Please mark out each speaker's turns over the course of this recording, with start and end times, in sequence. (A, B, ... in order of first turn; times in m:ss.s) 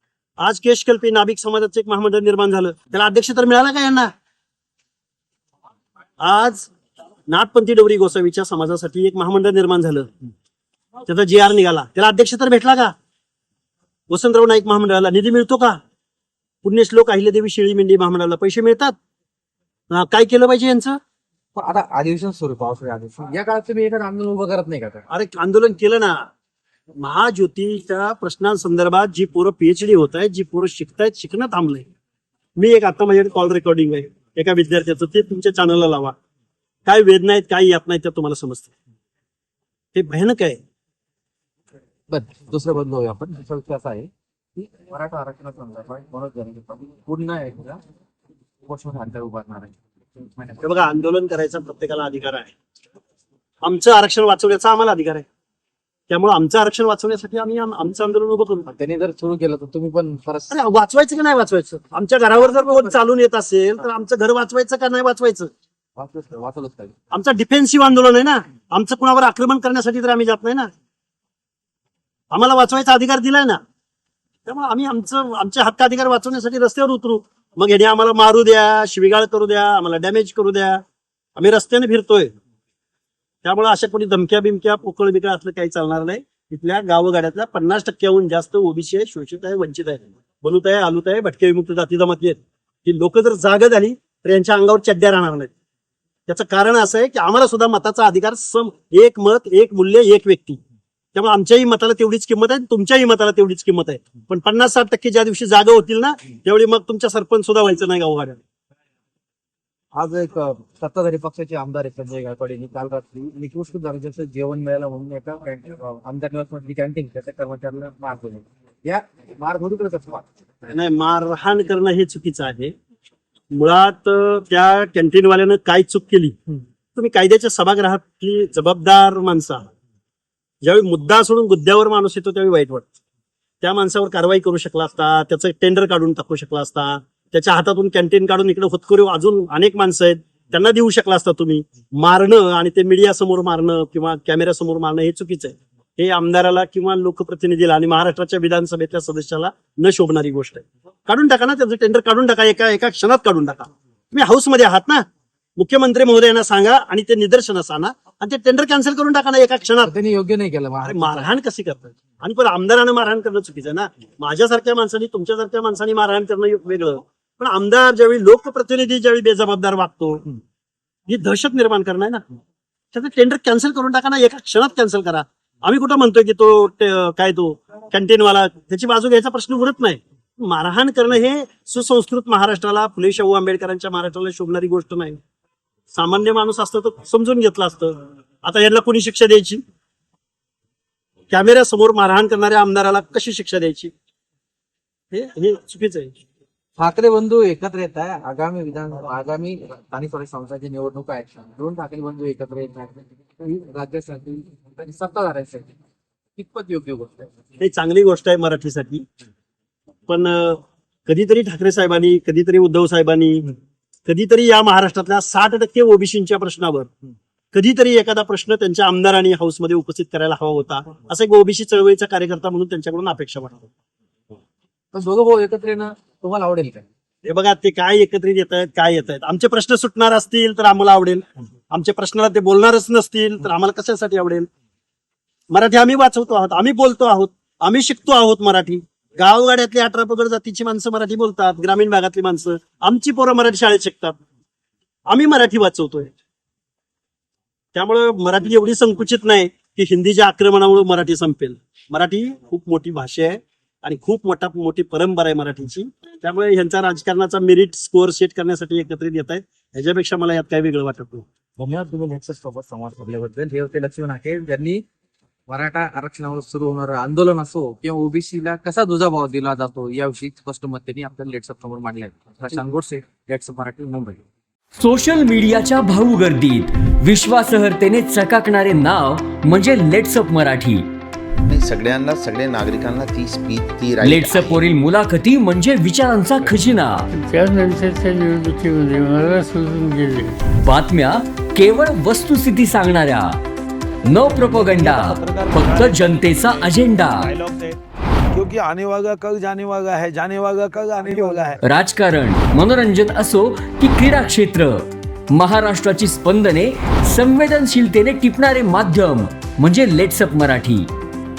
0:00.4-0:04.1 A
0:06.2-0:06.7 A
0:07.3-0:10.1 A
0:11.1-0:12.9 A
0:14.1-0:15.8 A
0:16.6-0:18.9 A
0:19.9-0:21.0 A
0:21.6-0:25.0 B
0:25.1-0:26.2 A
0:27.0-0:31.8 A
0:32.6-0:36.1 A
0:36.8-0:38.7 A
0:39.9-0:40.6 A
0:42.1-0:47.8 B
0:48.6-0:50.6 B
0:50.6-0:52.5 A
0:53.6-0:55.2 A
0:56.1-0:58.7 A
0:58.7-1:00.5 B
1:00.5-1:05.5 A
1:02.3-1:02.9 B
1:06.0-1:06.9 B
1:07.1-1:10.7 A
1:12.3-1:13.6 A
1:14.4-1:20.8 A
1:21.4-1:22.3 A
1:23.4-1:35.5 A
1:36.3-1:40.6 A
1:41.1-1:48.4 A
1:50.0-2:00.3 B
2:00.7-2:02.7 A
2:03.5-2:06.4 A
2:06.9-2:09.7 A
2:10.6-2:12.9 A
2:13.6-2:35.0 A
2:35.6-2:39.9 A
2:39.8-2:41.3 B
2:40.8-2:50.2 A
2:51.1-2:52.2 A
2:52.9-3:05.2 A
3:05.9-3:09.6 A
3:11.3-3:13.9 A
3:15.1-3:16.2 A
3:16.8-3:25.7 B
3:26.4-3:27.3 B
3:27.6-3:29.0 A
3:30.1-3:33.5 A
3:34.0-3:36.9 A
3:37.5-3:43.7 A
3:44.9-3:46.8 B
3:47.2-3:54.5 A
3:55.5-4:04.2 A
4:05.1-4:06.1 A
4:07.7-4:21.2 A
4:21.6-4:24.8 B
4:25.5-4:34.2 B
4:34.8-4:40.9 C
4:41.4-4:44.6 D
4:44.0-4:47.0 C
4:47.1-4:50.2 E
4:50.6-4:53.3 C
4:54.0-4:57.3 C
4:54.2-4:57.8 F
4:58.3-5:01.6 F
5:01.6-5:04.8 C
5:05.3-5:10.9 C